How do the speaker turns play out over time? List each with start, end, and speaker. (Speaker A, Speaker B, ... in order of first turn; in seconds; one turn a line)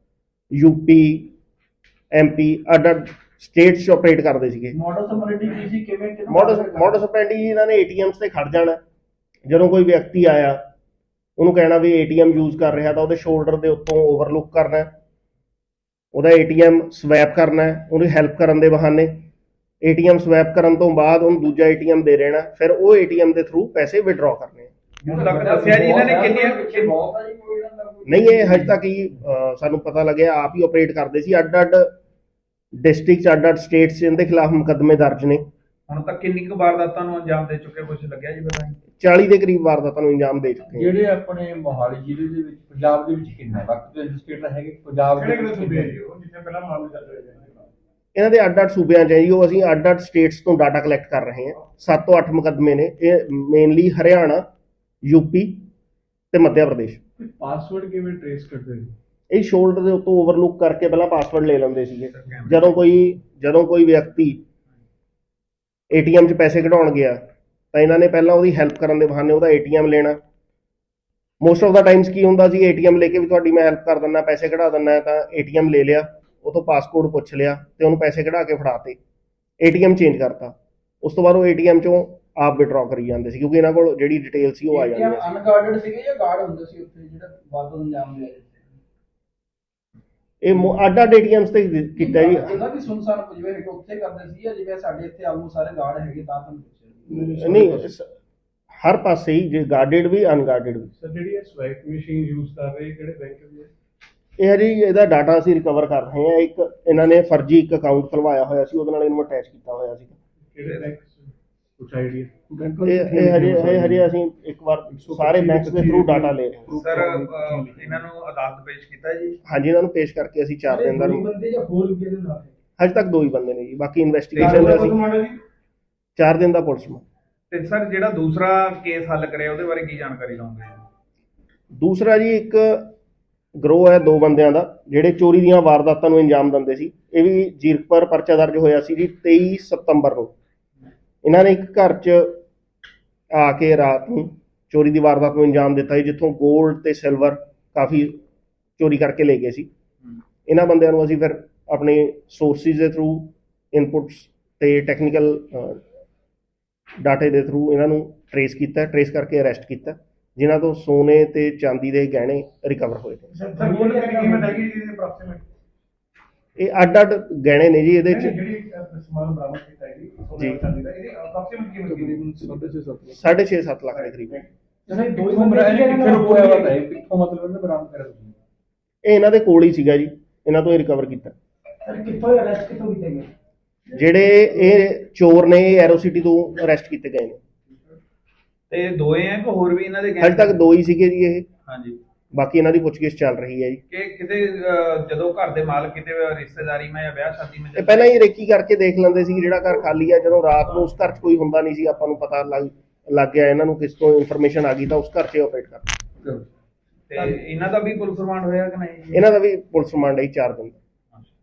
Speaker A: 0.5-1.3
Speaker A: 2.1-4.8
Speaker B: 4.7-7.0
Speaker A: 6.3-8.8
Speaker A: 9.5-10.6
Speaker A: 11.4-14.9
Speaker A: 16.1-19.2
Speaker A: 19.8-24.7
Speaker B: 25.0-28.4
Speaker C: 25.1-26.9
Speaker D: 25.3-28.0
Speaker A: 28.0-31.9
Speaker A: 32.8-35.5
Speaker C: 35.9-38.8
Speaker A: 39.0-40.9
Speaker D: 40.7-46.0
Speaker E: 45.2-47.7
Speaker A: 48.1-54.5
Speaker A: 55.0-55.7
Speaker A: 56.3-57.0
Speaker F: 57.2-58.9
Speaker A: 59.3-64.4
Speaker C: 62.1-62.7
Speaker A: 65.9-67.2
Speaker A: 67.7-70.2
Speaker A: 71.4-79.0
Speaker A: 79.6-85.4
Speaker B: 84.7-88.7
Speaker A: 90.4-92.6
Speaker B: 92.0-97.9
Speaker A: 97.1-98.1
Speaker A: 98.8-100.9
Speaker F: 101.0-103.7
Speaker A: 104.4-110.2
Speaker F: 110.5-114.0
Speaker C: 110.6-110.9
Speaker A: 112.8-116.6
Speaker F: 114.9-118.0
Speaker C: 116.7-119.4
Speaker A: 119.5-121.3
Speaker B: 120.7-122.5
Speaker A: 122.8-125.0
Speaker C: 124.3-124.7
Speaker B: 124.4-124.8
Speaker A: 126.2-127.0
Speaker C: 127.5-130.8
Speaker A: 131.7-132.9
Speaker A: 133.6-140.3
Speaker A: 141.2-142.4
Speaker A: 143.3-148.2
Speaker A: 148.8-149.7
Speaker A: 150.5-155.8
Speaker A: 157.0-163.3
Speaker E: 163.4-165.4
Speaker B: 163.5-164.6
Speaker A: 166.6-168.3
Speaker E: 168.1-172.0
Speaker D: 171.8-173.1
Speaker F: 172.0-173.2
Speaker A: 173.1-174.4
Speaker B: 174.9-176.7
Speaker D: 174.9-178.3
Speaker A: 179.0-181.3
Speaker B: 181.8-183.3
Speaker A: 183.9-187.4
Speaker C: 188.7-190.6
Speaker A: 190.2-191.5
Speaker C: 191.7-192.0
Speaker A: 192.3-193.8
Speaker C: 193.9-198.1
Speaker A: 197.7-205.9
Speaker C: 207.1-209.3
Speaker A: 209.1-210.8